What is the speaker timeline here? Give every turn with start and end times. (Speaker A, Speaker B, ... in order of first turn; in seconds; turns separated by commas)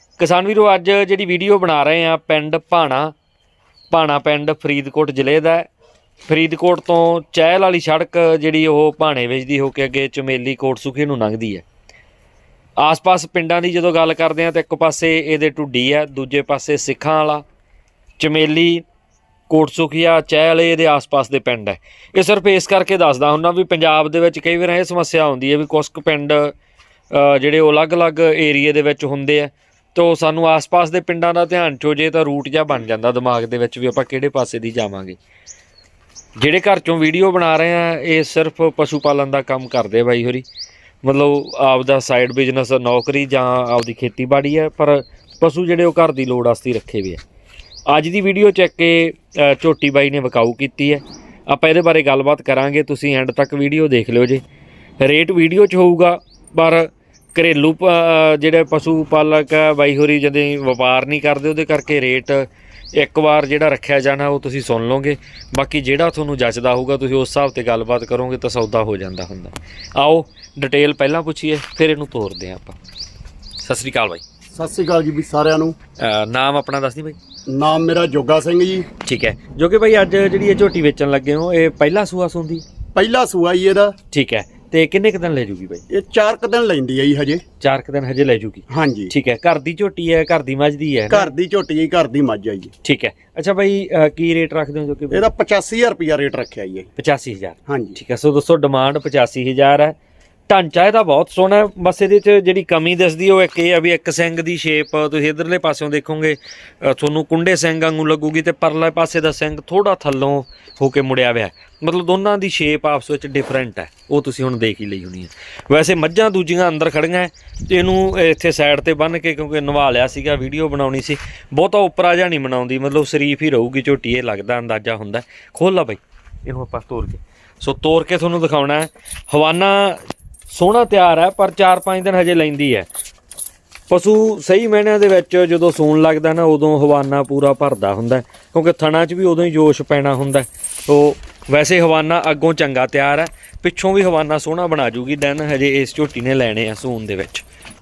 Speaker A: 0.2-3.1, Speaker A: 3.9-5.7, Speaker A: 6.3-11.6, Speaker A: 12.8-17.4, Speaker A: 18.2-18.8, Speaker A: 19.5-26.5, Speaker A: 27.1-35.2, Speaker A: 36.4-40.4, Speaker A: 41.0-47.2, Speaker A: 47.9-54.4, Speaker A: 55.0-72.8, Speaker A: 73.6-74.2, Speaker B: 74.5-75.8, Speaker A: 76.0-77.2, Speaker B: 77.5-78.9, Speaker A: 79.0-82.6, Speaker B: 82.9-83.9, Speaker A: 84.1-85.8, Speaker B: 85.9-87.4, Speaker A: 87.6-91.3, Speaker B: 88.7-89.1, Speaker B: 91.1-92.7, Speaker A: 92.8-95.2, Speaker B: 95.1-96.9, Speaker A: 97.0-100.0, Speaker B: 97.7-98.0, Speaker A: 100.5-132.9, Speaker A: 133.9-147.4